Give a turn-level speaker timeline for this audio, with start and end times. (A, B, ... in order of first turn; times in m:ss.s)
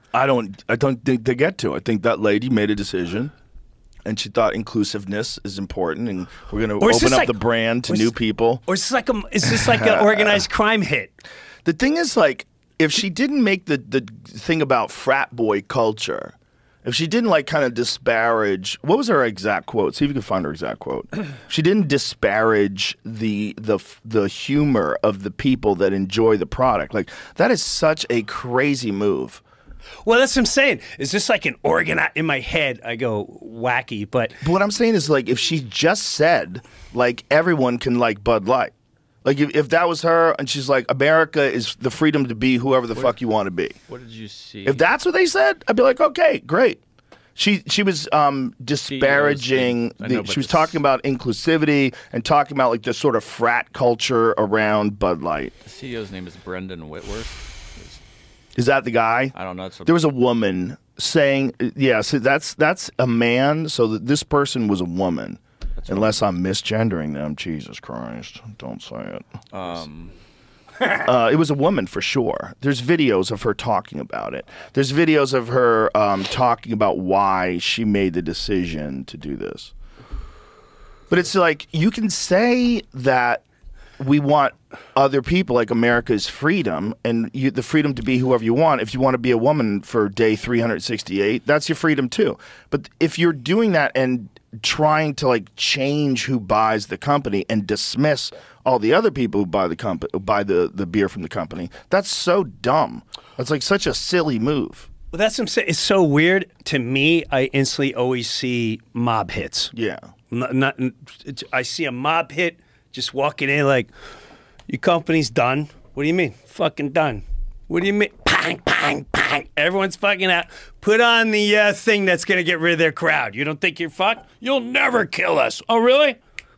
0:00.1-0:03.3 A
0:04.0-0:08.6 A
0:06.8-0:08.1 B
0:08.7-0:11.2 B
0:09.4-0:10.4 A
0:11.6-0:29.4 A
0:30.0-0:34.3 B
0:34.4-0:38.7 A
0:39.2-0:43.8 A
0:43.9-0:44.8 C
0:44.6-0:46.8 A
0:47.4-0:55.5 A
0:48.8-0:50.8 C
0:55.6-0:58.0 C
0:58.6-0:59.3 A
0:59.3-1:00.1 C
0:59.8-1:09.2 A
1:05.8-1:06.3 C
1:09.5-1:10.1 C
1:10.9-1:19.7 A
1:21.1-1:23.4 A
1:24.0-1:44.9 A
1:45.1-1:49.7 B
1:49.7-1:50.1 A
1:50.3-1:53.9 B
1:54.7-2:06.2 B